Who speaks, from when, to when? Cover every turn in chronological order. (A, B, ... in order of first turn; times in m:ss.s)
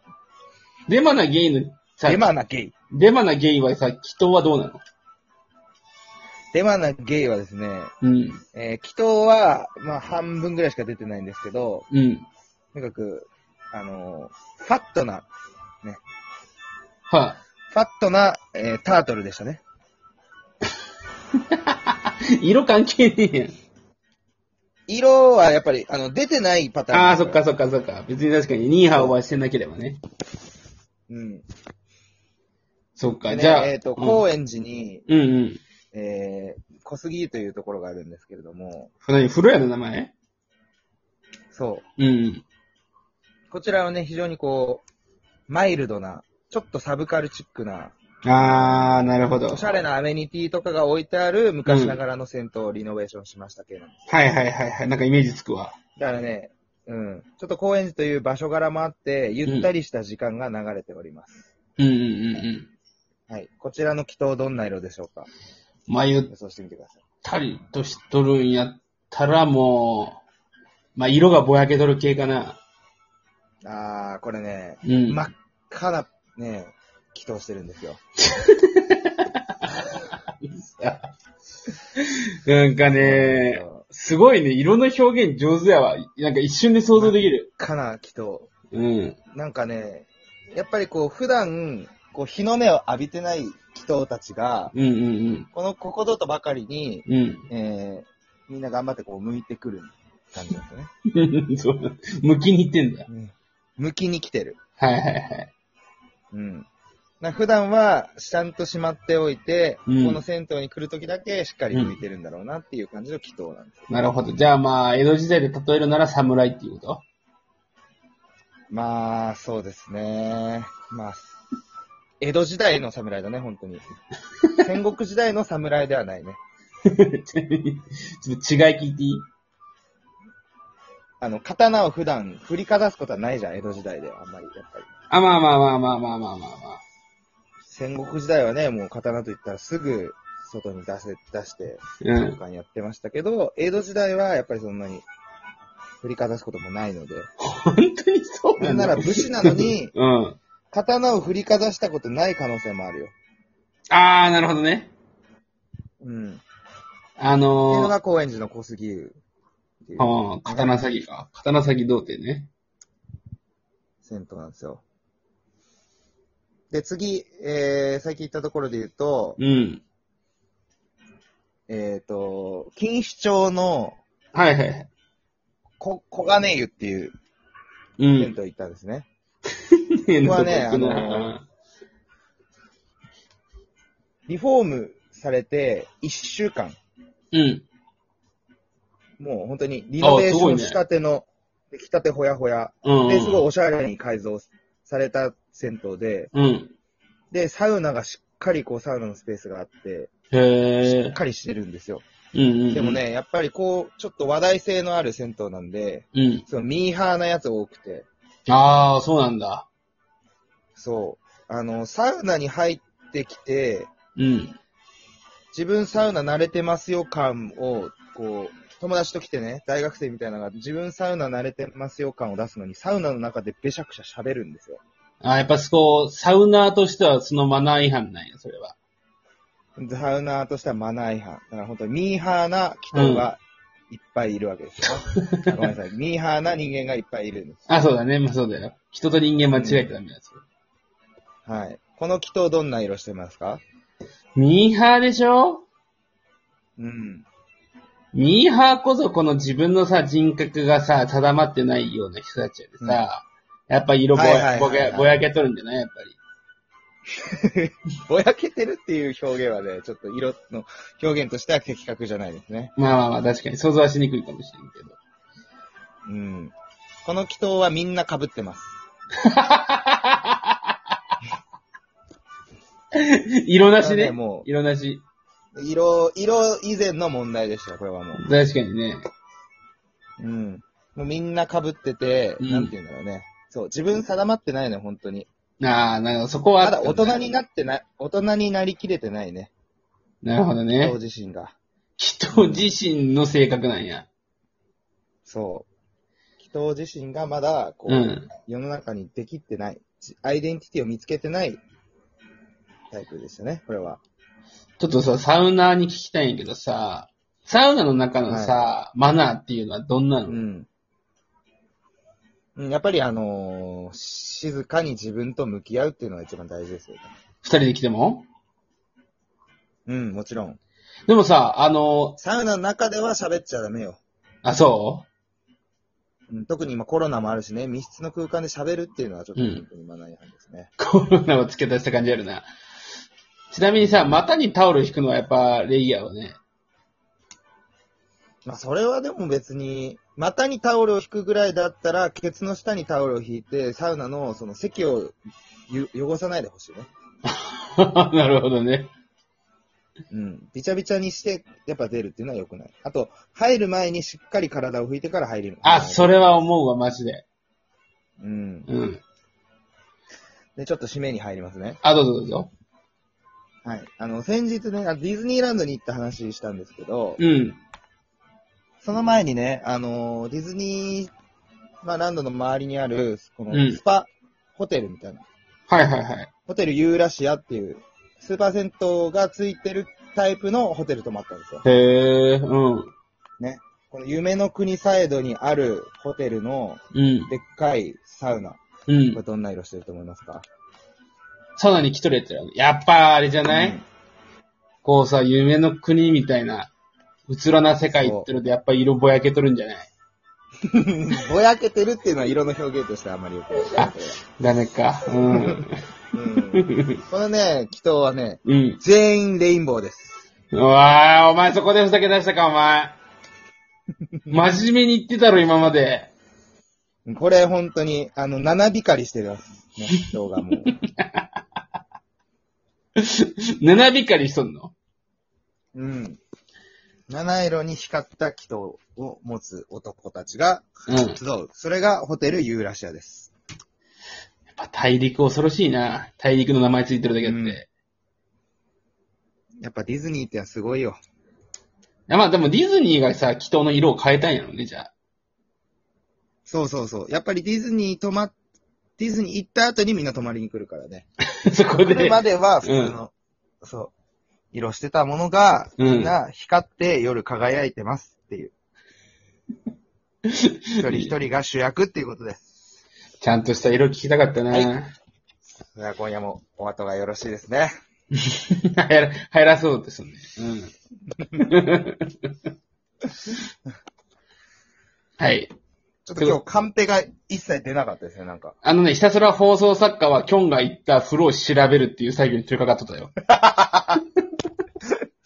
0:00.9-0:02.2 A
0:02.0-0:02.7 B
0:02.9-0:04.8 A
0:06.5-0:07.9 B
0:08.0-0:08.4 A
0:08.5-0:11.9 B
0:11.9-0:12.2 A
0:12.7-0:15.3 B
0:17.1-0:17.4 A
0:17.7-0:19.6 B
0:21.5-0:23.5 A
0:24.9-0:27.4 B
0:26.9-0:30.0 A
0:28.9-0:29.2 B
0:31.1-0:31.4 B
0:33.0-0:34.2 A
0:33.3-0:35.1 B
0:35.1-0:35.6 A
0:35.9-0:38.9 B
0:39.0-0:40.1 A
0:41.5-0:41.9 B
0:42.0-0:42.4 A
0:43.5-0:44.8 B
0:45.5-0:54.1 B
0:48.2-0:49.7 A
0:51.7-0:52.0 A
0:54.1-0:55.8 A
0:56.0-1:01.5 B
1:01.8-1:02.7 A
1:03.3-1:05.3 B
1:05.9-1:06.3 A
1:06.3-1:07.0 B
1:07.2-1:10.2 A
1:11.0-1:12.6 A
1:13.6-1:18.0 B
1:14.8-1:15.3 A
1:18.2-1:21.1 A
1:22.0-1:27.5 A
1:22.9-1:23.8 B
1:26.9-1:28.5 B
1:28.7-1:29.2 A
1:29.3-1:34.7 B
1:34.7-1:35.5 A
1:35.5-1:40.9 B
1:37.1-1:37.4 A
1:41.1-1:43.1 A
1:43.1-1:44.6 B
1:44.8-1:45.5 A
1:46.3-1:46.7 B
1:47.2-1:53.9 B
1:49.9-1:50.2 A
1:53.9-1:57.0 A
1:58.7-2:01.3 B
2:02.2-2:03.8 B
2:04.6-2:06.4 B
2:06.8-2:09.2 A
2:11.2-2:14.9 B
2:15.1-2:16.8 A
2:17.7-2:25.0 B
2:22.0-2:22.4 A
2:26.0-2:27.3 B
2:27.4-2:30.4 A
2:28.6-2:29.9 B
2:30.7-2:33.1 B
2:33.9-2:34.9 A
2:36.0-2:36.4 B
2:37.2-2:37.9 A
2:37.7-2:39.2 B
2:39.8-2:40.8 B
2:40.0-2:42.5 A
2:44.0-2:44.8 B
2:46.7-2:49.4 B
2:49.4-2:49.8 A
2:51.7-2:54.0 B
2:54.3-2:54.9 A
2:55.8-2:57.1 B
2:58.0-2:58.3 A
2:58.2-2:59.1 B
2:59.6-3:01.4 A
3:00.2-3:01.3 B
3:04.3-3:06.8 B
3:07.3-3:07.6 A
3:09.2-3:16.3 B
3:10.0-3:10.8 A
3:12.8-3:13.4 A
3:16.3-3:16.7 A
3:17.3-3:20.1 B
3:20.3-3:21.1 A
3:20.8-3:22.0 B
3:22.3-3:23.0 A
3:22.7-3:28.1 B
3:26.1-3:26.4 A
3:28.5-3:29.7 A
3:30.8-3:33.9 B
3:34.2-3:34.6 A
3:35.5-3:44.8 B
3:45.2-3:48.8 A
3:49.8-3:57.7 B
3:52.9-3:53.3 A
3:57.7-4:00.4 A
3:59.5-3:59.9 B
4:01.4-4:03.6 B
4:04.4-4:05.6 A
4:06.8-4:07.2 B
4:08.1-4:16.2 A
4:14.1-4:15.2 B
4:17.2-4:22.7 B
4:22.8-4:25.0 A
4:26.0-4:26.5 B
4:27.0-4:28.8 B
4:29.2-4:30.6 A
4:32.9-4:35.0 A
4:33.8-4:34.5 B
4:35.5-4:38.3 B
4:38.2-4:39.0 A
4:40.2-4:45.3 B
4:42.4-4:42.7 A
4:45.6-4:47.2 A
4:46.6-4:49.5 B
4:50.2-4:50.9 A
4:50.8-4:51.6 B
4:52.0-4:54.1 A
4:52.3-4:52.7 B
4:55.2-4:55.7 B
4:56.4-5:01.6 B
4:57.9-4:58.3 A
5:02.9-5:04.0 B
5:04.8-5:10.4 A
5:08.3-5:08.6 B
5:10.3-5:10.7 B
5:12.5-5:17.1 B
5:17.4-5:18.2 A
5:19.8-5:20.6 B
5:21.1-5:22.2 A
5:22.2-5:24.0 B
5:24.4-5:25.0 A
5:26.3-5:30.7 B
5:29.4-5:29.6 A
5:30.8-5:32.5 A
5:33.5-5:36.4 A
5:33.8-5:34.2 B
5:38.4-5:45.2 B
5:45.7-5:46.9 B
5:47.3-5:48.9 A
5:50.1-5:56.4 B
5:55.6-5:57.2 A
5:58.2-5:58.7 B
5:58.7-5:59.0 A
6:00.6-6:01.8 B
6:01.8-6:02.5 A
6:03.6-6:07.2 B
6:07.2-6:07.6 A
6:08.8-6:11.1 B
6:11.8-6:15.2 B
6:13.5-6:13.8 A
6:15.7-6:16.3 A
6:16.5-6:21.6 B
6:21.6-6:22.9 A
6:23.4-6:28.6 B
6:26.9-6:27.3 A
6:28.9-6:29.2 A
6:29.1-6:30.4 B
6:31.6-6:33.8 A
6:33.4-6:33.8 B
6:34.8-6:36.7 A
6:37.3-6:39.9 A
6:37.9-6:38.3 B
6:40.7-6:44.2 B
6:43.8-6:45.8 A
6:45.3-6:50.2 B
6:46.6-6:47.0 A
6:48.4-6:48.8 A
6:50.5-6:53.0 A
6:54.3-6:56.1 A
6:57.0-7:00.7 B
7:00.8-7:01.2 A
7:03.0-7:04.7 A
7:05.7-7:06.2 B
7:07.1-7:13.3 B
7:10.9-7:11.2 A
7:14.5-7:17.7 A
7:17.2-7:17.6 B
7:19.6-7:21.0 B
7:22.1-7:24.9 A
7:26.5-7:28.3 B
7:29.0-7:31.0 B
7:31.3-7:33.0 A
7:31.7-7:33.9 B
7:34.5-7:38.5 B
7:35.8-7:36.1 A
7:40.3-7:41.1 A
7:40.8-7:42.4 B
7:43.2-7:44.9 A
7:44.5-7:44.7 B
7:45.7-7:47.7 B
7:48.1-7:50.7 A
7:51.4-7:52.3 A
7:55.2-7:55.5 A
7:56.0-7:58.6 B
7:58.6-8:03.1 A
8:03.3-8:04.0 B